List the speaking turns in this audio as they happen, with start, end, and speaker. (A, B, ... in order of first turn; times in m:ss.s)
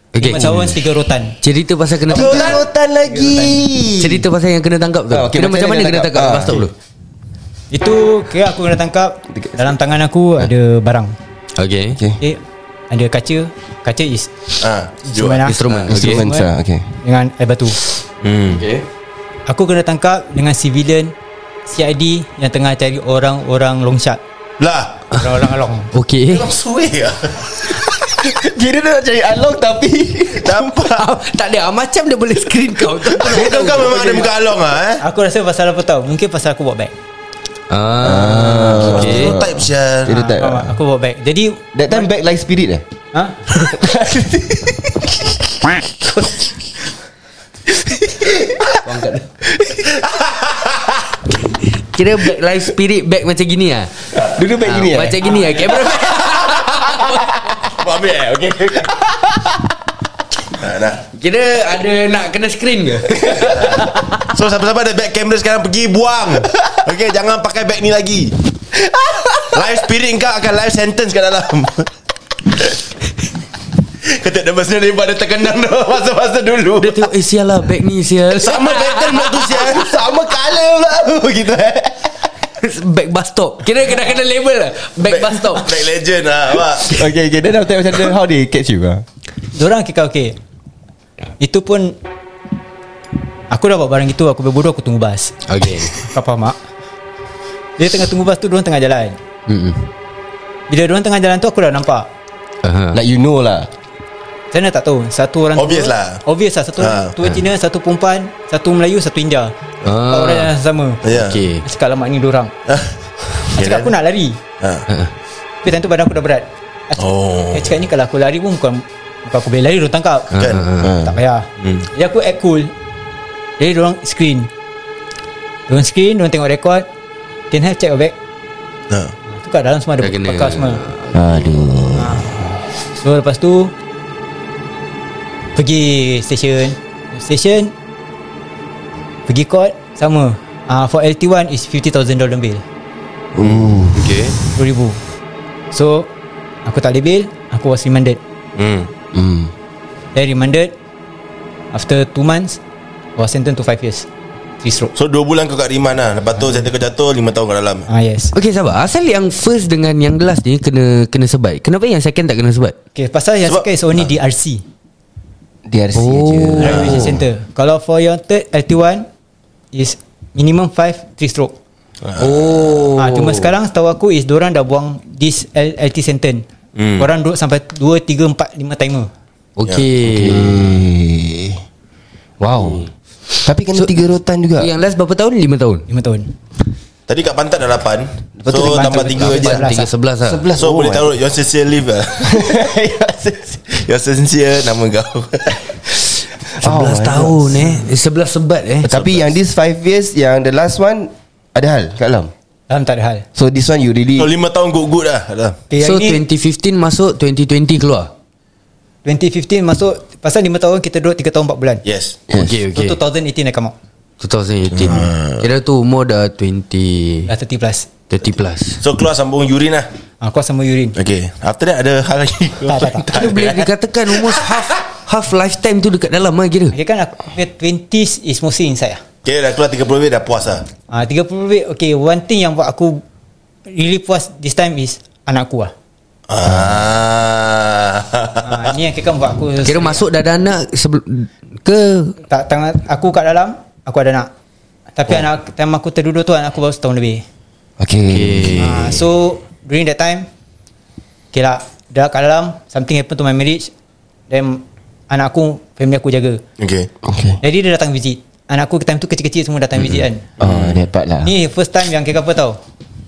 0:00.1-0:00.8 A
0:00.2-0:01.4 B
0:01.4-0:02.6 A
0:02.1-0:04.3 C
0:02.1-0:03.6 B
0:04.0-0:06.7 A
0:05.1-0:06.7 C
0:07.7-0:11.1 B
0:09.3-0:09.7 C
0:11.6-0:12.0 A
0:11.9-0:12.2 C
0:12.2-0:14.4 B
0:14.6-0:16.0 D
0:15.0-0:16.5 B
0:15.4-0:16.2 A
0:15.9-0:16.9 C
0:17.0-0:17.8 B
0:18.2-0:18.6 D
0:18.5-0:18.8 A
0:19.5-0:21.1 B
0:21.7-0:24.2 B
0:24.6-0:25.0 D
0:25.1-0:25.9 B
0:25.9-0:26.5 A
0:26.3-0:28.0 D
0:28.1-0:30.7 C
0:30.4-0:31.1 D
0:30.8-0:34.2 A
0:33.1-0:35.0 D
0:33.9-0:34.3 B
0:35.0-0:36.9 B
0:37.7-0:39.4 A
0:38.0-0:40.7 C
0:38.8-0:40.3 D
0:40.1-0:42.1 B
0:41.7-0:42.8 C
0:43.1-0:43.4 B
0:43.6-0:45.8 C
0:47.7-0:48.8 C
0:48.7-0:49.2 A
0:49.5-0:50.0 C
0:50.0-0:50.6 D
0:51.6-0:57.7 A
0:54.1-0:55.6 C
0:56.8-0:57.5 C
0:57.7-0:59.0 D
0:58.9-0:59.7 C
1:00.5-1:01.0 D
1:01.1-1:04.2 A
1:03.6-1:08.4 D
1:08.8-1:09.6 C
1:09.4-1:11.9 D
1:14.0-1:17.1 D
1:16.8-1:19.7 A
1:18.3-1:20.0 D
1:19.5-1:22.3 C
1:22.6-1:25.8 A
1:25.1-1:27.0 D
1:26.8-1:29.0 C
1:29.5-1:30.4 B
1:31.4-1:32.0 B
1:33.5-1:35.4 B
1:35.5-1:36.0 A
1:36.0-1:36.6 B
1:37.8-1:39.2 B
1:39.5-1:39.9 A
1:40.7-1:42.1 B
1:42.6-1:43.0 A
1:42.9-1:43.7 C
1:44.5-1:51.0 B
1:45.6-1:46.2 D
1:46.8-1:47.1 D
1:49.8-1:50.5 A
1:51.0-1:51.4 D
1:51.1-1:51.6 A
1:51.6-1:52.5 B
1:52.7-1:53.9 D
1:53.5-1:54.4 B
1:54.6-1:54.9 D
1:55.6-2:00.4 B
1:57.0-1:57.7 D
2:00.3-2:00.9 A
2:00.4-2:00.7 D
2:00.8-2:01.2 C
2:01.0-2:02.7 B
2:01.6-2:01.9 D
2:03.6-2:04.5 B
2:05.7-2:06.8 B
2:07.5-2:08.2 B
2:08.9-2:09.1 D
2:09.3-2:10.8 B
2:10.0-2:11.7 A
2:11.1-2:12.6 C
2:11.9-2:12.4 B
2:13.0-2:13.7 B
2:15.5-2:17.7 B
2:19.3-2:22.6 B
2:23.3-2:24.3 C
2:23.9-2:24.4 A
2:24.5-2:25.0 B
2:25.7-2:26.1 B
2:26.6-2:28.2 B
2:28.6-2:28.9 D
2:29.1-2:29.5 C
2:30.1-2:30.7 B
2:31.7-2:32.6 B
2:33.2-2:34.1 B
2:34.6-2:34.9 B
2:34.9-2:37.9 D
2:37.9-2:38.3 B
2:38.3-2:42.8 A
2:42.9-2:44.6 B
2:45.6-2:47.2 C
2:45.9-2:47.1 A
2:46.6-2:49.1 B
2:49.7-2:51.5 B
2:52.0-2:52.9 D
2:52.2-2:53.5 A
2:53.0-2:56.4 B
2:56.8-2:57.1 D
2:57.0-2:59.1 B
2:59.6-3:00.7 A
3:00.0-3:01.6 C
3:02.4-3:02.9 C
3:03.4-3:04.7 C
3:04.6-3:05.9 A
3:05.9-3:06.3 B
3:07.1-3:09.7 D
3:08.4-3:08.9 C
3:08.5-3:09.9 B
3:08.9-3:10.5 A
3:10.2-3:11.2 C
3:10.5-3:12.6 D
3:12.2-3:13.6 C
3:13.7-3:15.7 D
3:16.5-3:18.9 A
3:16.6-3:17.8 C
3:18.8-3:22.3 C
3:18.8-3:19.3 D
3:22.7-3:23.2 B
3:23.3-3:24.3 C
3:24.2-3:25.6 D
3:25.7-3:26.2 B
3:25.8-3:28.1 A
3:29.0-3:31.8 B
3:31.8-3:32.2 D
3:32.3-3:32.6 C
3:32.3-3:33.0 A
3:32.7-3:33.7 B
3:34.2-3:37.3 A
3:34.7-3:35.5 D
3:37.3-3:37.9 B
3:38.1-3:38.8 A
3:38.8-3:39.9 D
3:40.2-3:41.0 B
3:40.9-3:44.6 D
3:42.6-3:43.4 B
3:43.1-3:46.7 A
3:46.7-3:49.0 B
3:49.2-3:50.7 D
3:50.9-3:53.0 B
3:53.7-3:55.7 B
3:56.3-3:58.7 D
3:58.4-4:00.1 B
3:59.6-4:02.2 A
4:02.3-4:04.3 B
4:05.0-4:07.2 B
4:07.8-4:08.8 C
4:08.1-4:09.0 A
4:08.6-4:10.3 B
4:11.3-4:13.7 B
4:14.3-4:16.4 B
4:16.6-4:16.9 D
4:17.0-4:17.4 C
4:17.4-4:20.2 B
4:20.4-4:21.3 C
4:20.4-4:20.8 D
4:21.2-4:22.6 B